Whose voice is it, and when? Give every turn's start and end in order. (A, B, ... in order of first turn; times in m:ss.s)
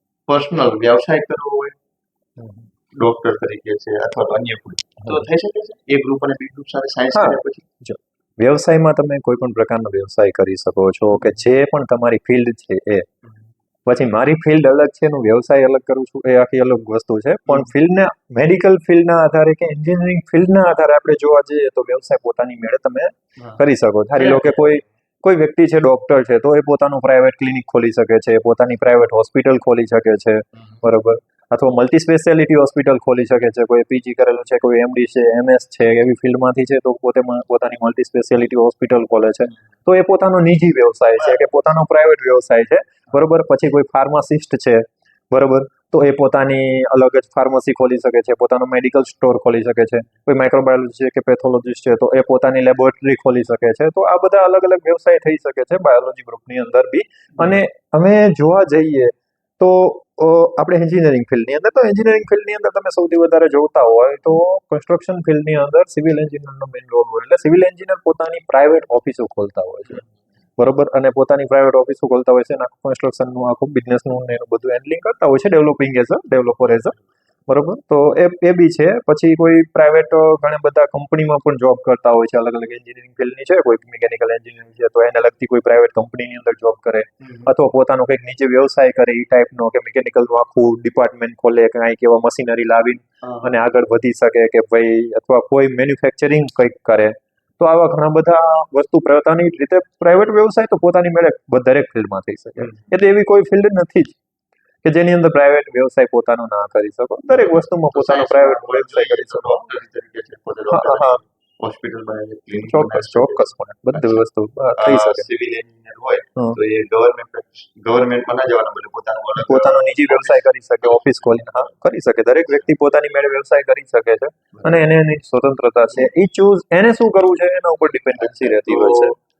0:00.3-0:01.7 A
0:02.4-0:02.7 B
0:02.9-0:07.6 A
0:07.1-0:13.1 B
0:13.8-1:10.0 B
0:24.1-0:24.8 A
0:41.2-0:41.5 A
1:10.6-1:16.9 B
1:16.6-1:16.9 A
1:17.5-1:44.2 B
1:27.2-1:27.5 A
1:33.2-1:33.5 A
1:42.6-1:42.9 A
1:44.8-1:49.6 B
1:47.3-1:54.2 A
1:50.7-1:51.2 B
1:52.6-1:55.3 B
1:54.8-2:01.7 A
1:59.4-2:09.1 B
2:04.5-2:04.8 A
2:08.2-2:09.1 A